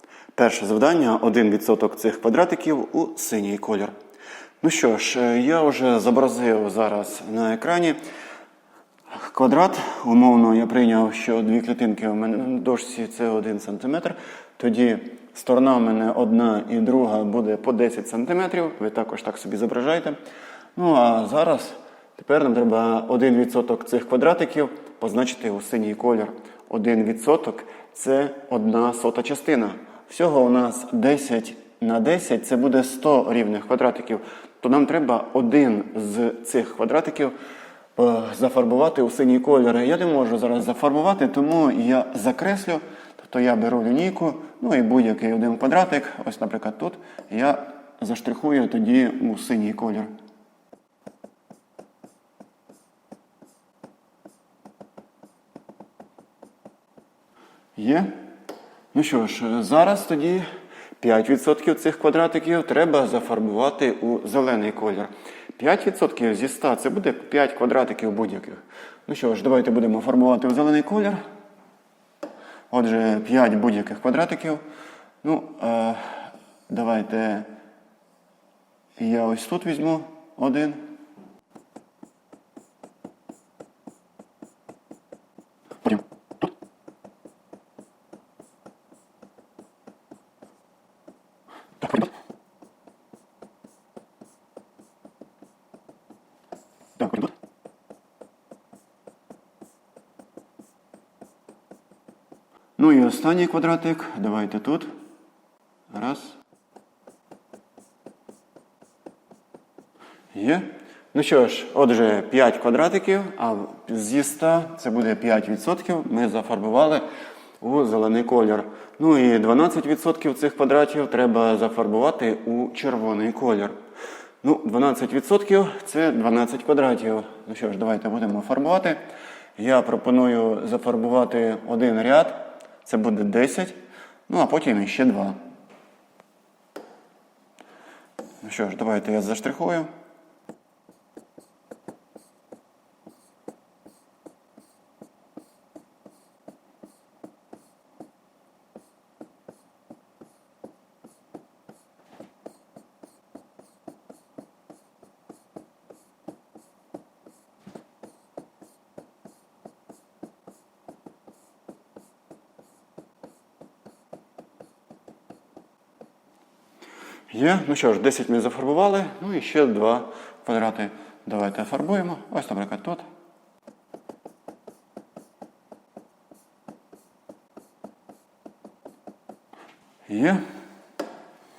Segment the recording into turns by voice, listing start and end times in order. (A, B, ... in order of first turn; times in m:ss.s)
0:00.3-0:03.9 A
0:04.6-0:08.0 A
0:09.1-0:20.2 A
0:20.7-0:37.3 A
0:38.0-0:50.1 A
0:57.8-0:58.1 A
0:58.9-1:00.5 A
1:01.0-1:11.2 A
1:12.7-1:14.6 A
1:15.2-1:17.5 A
1:19.0-1:20.8 A
1:42.8-1:44.9 A
1:45.9-1:46.4 A
1:50.3-1:57.0 A
1:57.6-2:03.7 A
2:04.4-2:09.0 A
2:09.6-2:13.8 A
2:14.3-2:15.4 A
2:18.4-2:19.9 A
2:47.3-2:53.0 A
3:00.1-3:00.4 A